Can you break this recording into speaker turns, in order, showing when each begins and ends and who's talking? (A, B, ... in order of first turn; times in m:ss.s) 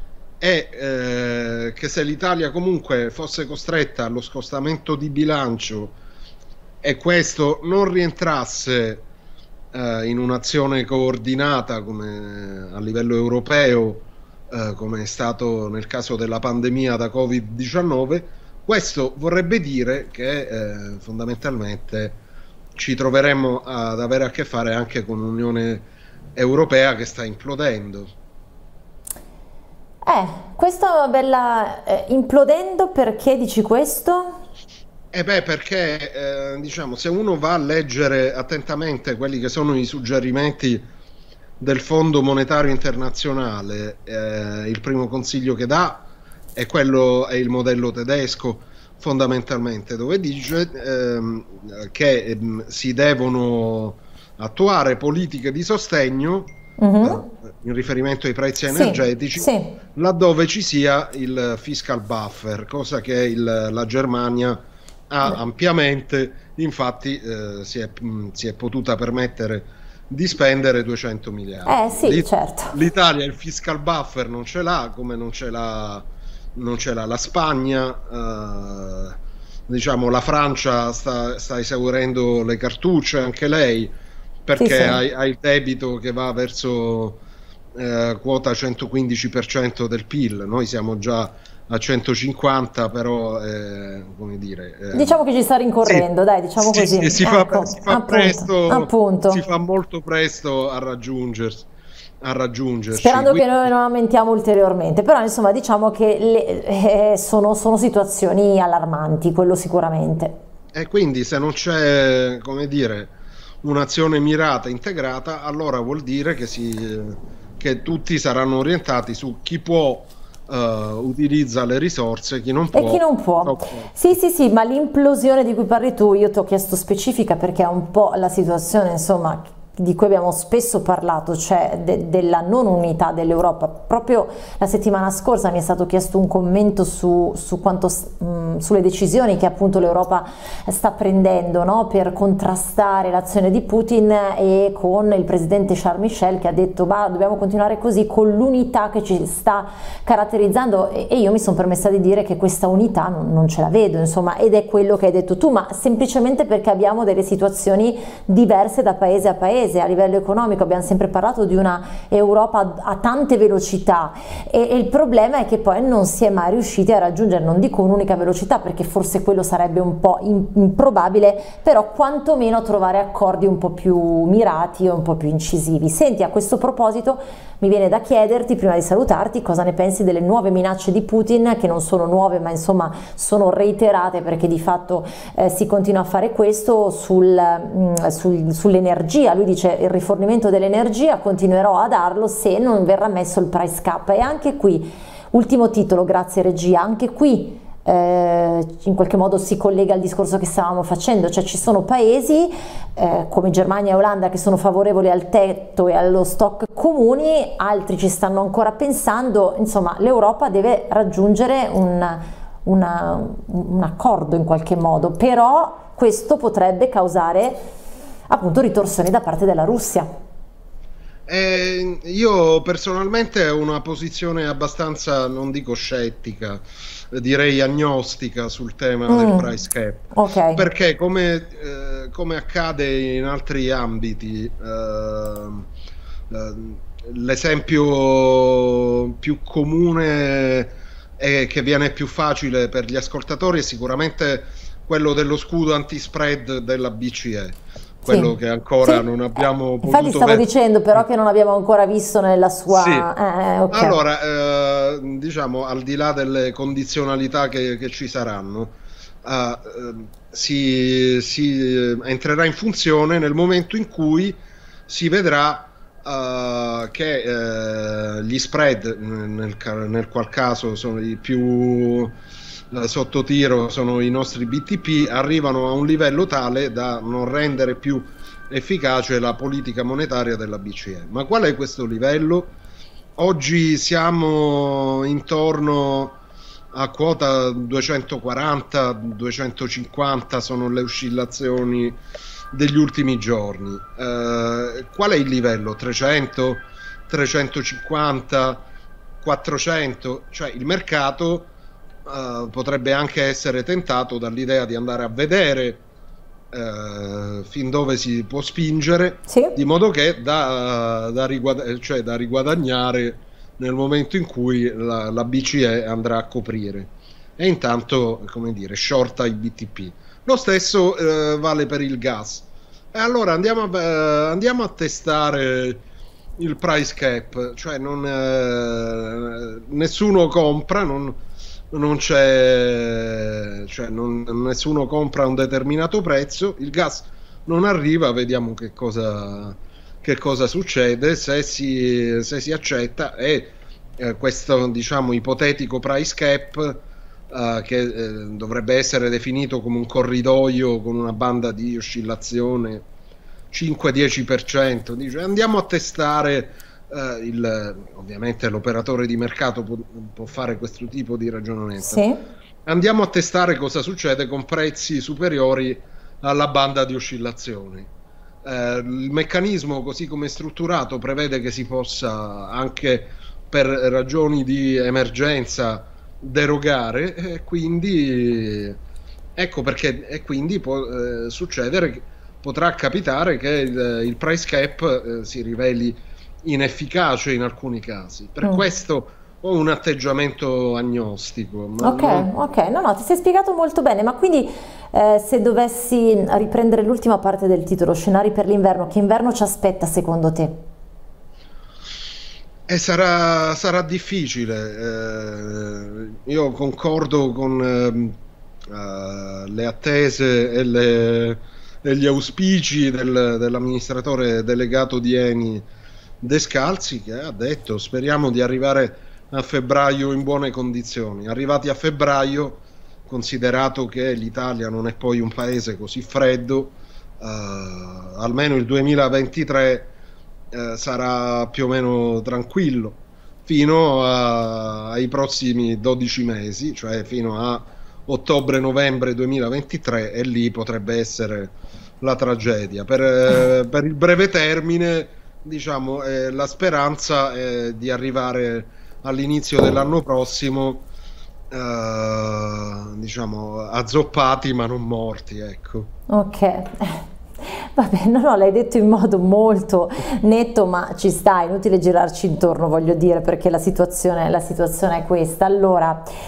0:00.4-0:06.0 A
0:06.8-0:09.1 A
0:09.7-0:22.2 A
0:22.8-0:28.1 A
0:30.0-0:34.4 B
0:35.1-0:40.9 A
0:41.6-1:19.2 A
0:56.8-0:57.2 B
0:58.7-0:59.8 B
1:11.7-1:12.8 B
1:19.7-1:23.9 A
1:24.5-1:27.2 A
1:24.6-1:25.0 B
1:27.8-1:35.2 A
1:34.9-1:39.4 B
1:36.6-1:41.7 A
1:42.2-1:43.7 A
1:42.9-1:50.4 B
1:50.7-2:03.9 A
2:02.7-3:37.7 B
3:38.3-3:40.1 B
3:41.3-3:55.7 A
3:49.1-3:49.5 B
3:50.1-3:50.6 B
3:56.3-4:11.0 A
4:08.1-4:09.1 B
4:09.8-4:14.0 B
4:12.7-4:13.1 A
4:13.7-4:32.2 A
4:32.7-4:42.6 A
4:43.2-4:46.2 A
4:46.7-4:52.0 A
4:52.5-4:58.7 A
4:59.2-5:01.5 A
5:02.1-5:05.8 A
5:06.5-5:25.8 A
5:09.3-5:09.5 B
5:26.4-5:52.9 A
5:53.5-6:02.0 A
6:01.8-6:02.2 B
6:02.6-6:07.9 A
6:08.4-6:18.8 A
6:19.4-6:32.3 A
6:31.8-6:40.6 B
6:42.7-6:48.2 A
6:48.7-6:55.7 A
6:56.2-7:09.9 A
7:10.5-7:30.9 A
7:31.5-7:35.9 A
7:36.1-7:46.0 B